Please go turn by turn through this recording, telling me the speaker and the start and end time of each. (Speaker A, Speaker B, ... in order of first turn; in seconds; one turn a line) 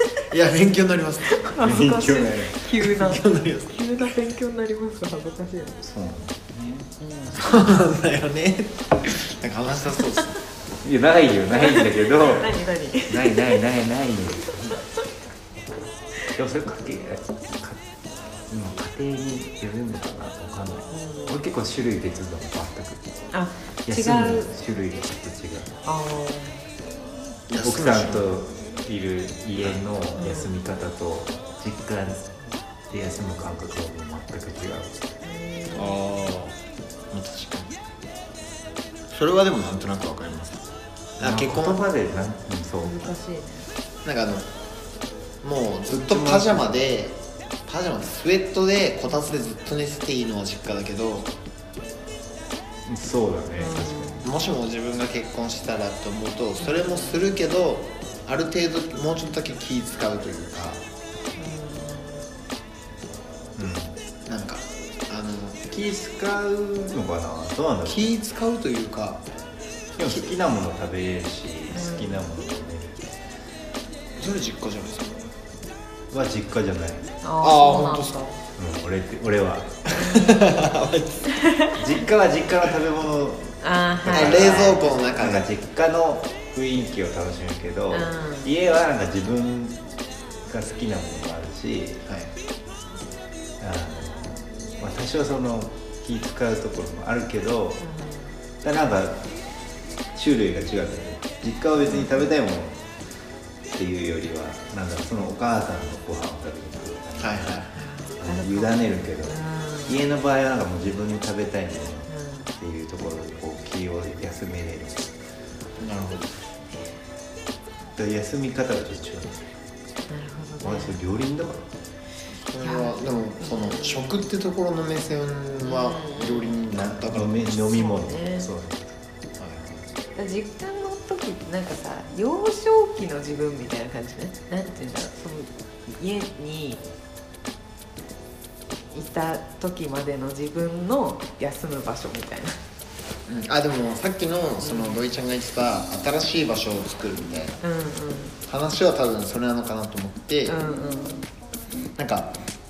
Speaker A: 0.3-1.4
Speaker B: 1.3-5.8
Speaker C: 1.6-2.6
Speaker A: 3.0-3.8
Speaker C: 5.8-6.9
Speaker B: 7.0-7.3
Speaker A: 7.3-10.3
Speaker C: 10.8-14.8
Speaker B: 11.6-13.6
Speaker C: 16.3-17.8
Speaker C: 18.5-23.1
Speaker B: 20.9-21.4
Speaker B: 23.3-24.5
Speaker C: 23.9-25.8
Speaker B: 25.8-26.6
Speaker A: 27.5-28.3
Speaker C: 27.6-35.1
Speaker B: 30.2-30.5
Speaker B: 35.2-36.0
Speaker A: 35.7-36.5
Speaker A: 37.1-37.8
Speaker A: 39.1-40.6
Speaker A: 41.2-41.8
Speaker C: 41.2-43.0
Speaker B: 42.8-43.7
Speaker A: 44.0-44.5
Speaker A: 45.4-51.3
Speaker C: 46.1-46.8
Speaker C: 52.9-54.3
Speaker B: 53.5-54.3
Speaker A: 54.2-60.8
Speaker B: 56.6-57.2
Speaker B: 61.4-62.2
Speaker C: 63.6-64.0
Speaker A: 64.2-65.7
Speaker C: 65.7-68.1
Speaker A: 67.9-69.2
Speaker C: 70.0-73.2
Speaker B: 71.7-72.2
Speaker A: 74.2-75.2
Speaker C: 76.1-77.1
Speaker B: 77.2-78.4
Speaker A: 77.4-78.2
Speaker C: 78.6-79.9
Speaker B: 79.9-80.5
Speaker A: 79.9-81.2
Speaker B: 81.3-81.8
Speaker C: 81.7-89.8
Speaker B: 83.6-85.0
Speaker A: 84.0-85.5
Speaker B: 87.9-88.5
Speaker C: 90.5-92.0
Speaker A: 92.0-92.3
Speaker C: 93.6-97.8
Speaker B: 97.8-98.3
Speaker C: 98.6-99.2
Speaker C: 100.1-102.8
Speaker C: 103.7-107.6
Speaker A: 107.2-107.8
Speaker B: 107.7-110.0
Speaker C: 108.2-115.1
Speaker B: 112.1-112.5
Speaker A: 115.8-116.3
Speaker C: 118.0-119.5
Speaker B: 120.1-121.0
Speaker C: 120.6-121.6
Speaker A: 122.3-127.5
Speaker B: 122.6-124.2
Speaker B: 125.6-126.6
Speaker C: 126.7-128.9
Speaker B: 127.7-128.5
Speaker A: 129.4-129.8
Speaker B: 130.2-136.8
Speaker B: 138.9-142.6
Speaker A: 143.3-147.6
Speaker B: 144.6-145.0
Speaker B: 147.6-148.3
Speaker A: 148.5-150.5
Speaker B: 150.4-151.2
Speaker A: 152.0-152.3